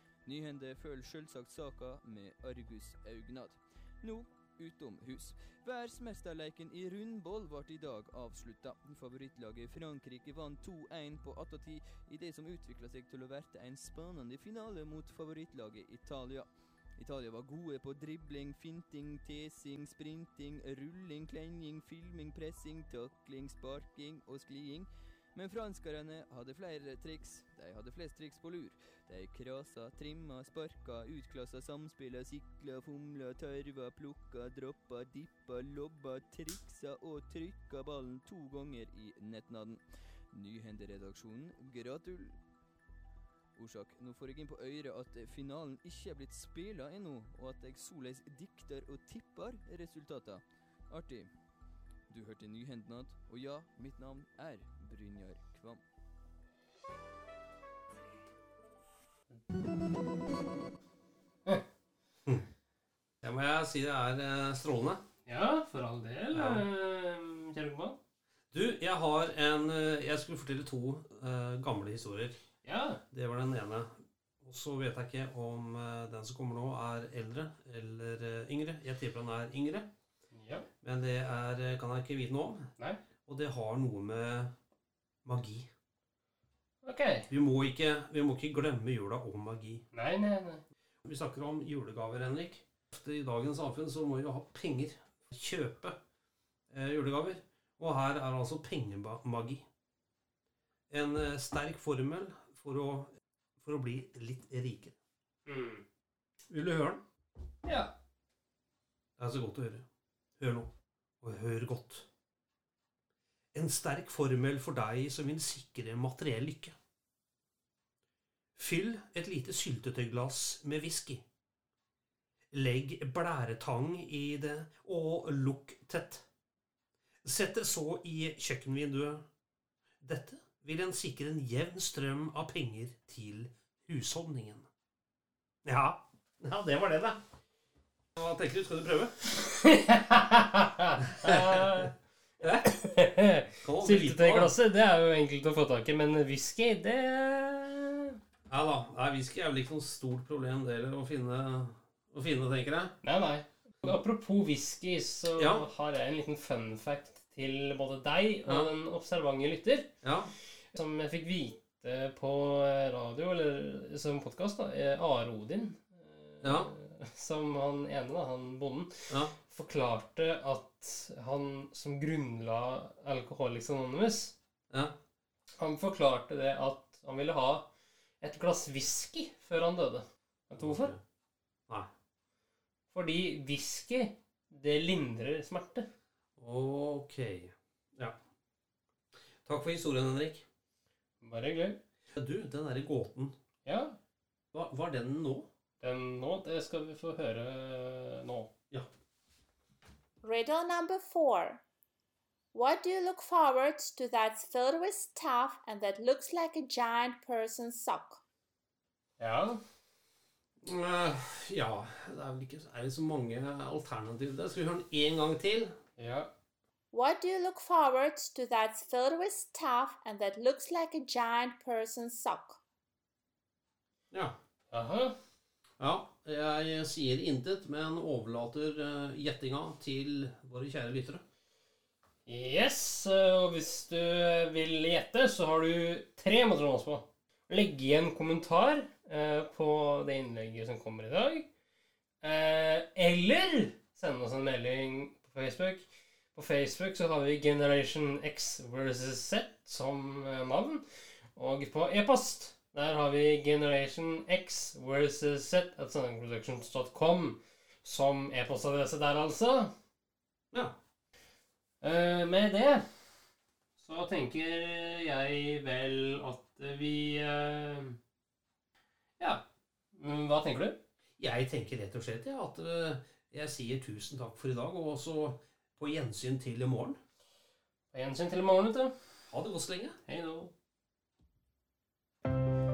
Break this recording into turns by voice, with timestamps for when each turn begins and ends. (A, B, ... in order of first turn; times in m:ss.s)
0:00.2-0:42.4 A
0:43.6-0:51.3 A
0:52.1-0:55.8 A
1:03.2-1:05.0 B
1:05.3-1:08.0 C
1:06.3-1:06.7 B
1:08.5-1:12.4 B
1:12.6-1:13.0 C
1:13.1-1:19.9 B
1:20.3-1:20.7 C
1:20.8-1:22.7 B
1:23.3-1:24.5 B
1:25.2-1:25.7 B
1:26.8-1:27.3 C
1:27.3-1:29.8 B
1:29.9-1:30.6 C
1:31.0-1:36.0 B
1:36.7-1:39.7 B
1:40.9-1:45.0 B
1:45.5-1:45.8 C
1:46.5-1:47.0 B
1:47.6-1:47.9 C
1:49.2-1:49.8 B
1:50.4-1:50.7 B
1:51.2-1:52.1 B
1:53.5-1:56.8 B
1:58.6-2:01.2 B
2:02.5-2:06.3 B
2:07.2-2:09.2 B
2:10.0-2:14.7 B
2:15.6-2:17.2 B
2:18.2-2:19.2 B
2:19.4-2:21.9 C
2:21.0-2:21.9 B
2:22.4-2:22.7 B
2:22.6-2:28.2 C
2:23.6-2:24.6 B
2:28.5-2:33.0 B
2:33.0-2:39.9 C
2:35.4-2:35.7 B
2:40.0-2:40.3 B
2:40.7-2:54.4 C
2:46.4-2:46.7 B
2:49.1-2:49.4 B
2:55.6-2:57.7 C
2:58.2-3:01.0 C
3:00.6-3:01.0 B
3:02.9-3:05.9 C
3:06.4-3:08.2 B
3:09.4-3:10.4 B
3:11.2-3:11.8 C
3:12.2-3:13.3 B
3:13.6-3:14.0 C
3:14.5-3:15.5 B
3:15.8-3:18.5 C
3:20.2-3:21.6 D
3:22.5-3:28.2 D
3:29.2-3:29.6 C
3:30.6-3:35.8 B
3:36.0-3:36.3 C
3:36.9-3:42.6 D
3:44.1-3:44.4 B
3:44.7-3:45.2 C
3:45.8-3:51.2 B
3:52.3-4:01.5 C
4:02.2-4:19.7 C
4:21.8-4:23.1 C
4:23.8-4:28.0 C
4:29.9-4:30.8 C
4:31.2-4:37.0 B
4:37.9-4:38.9 C
4:39.3-4:40.0 B
4:40.1-4:40.5 C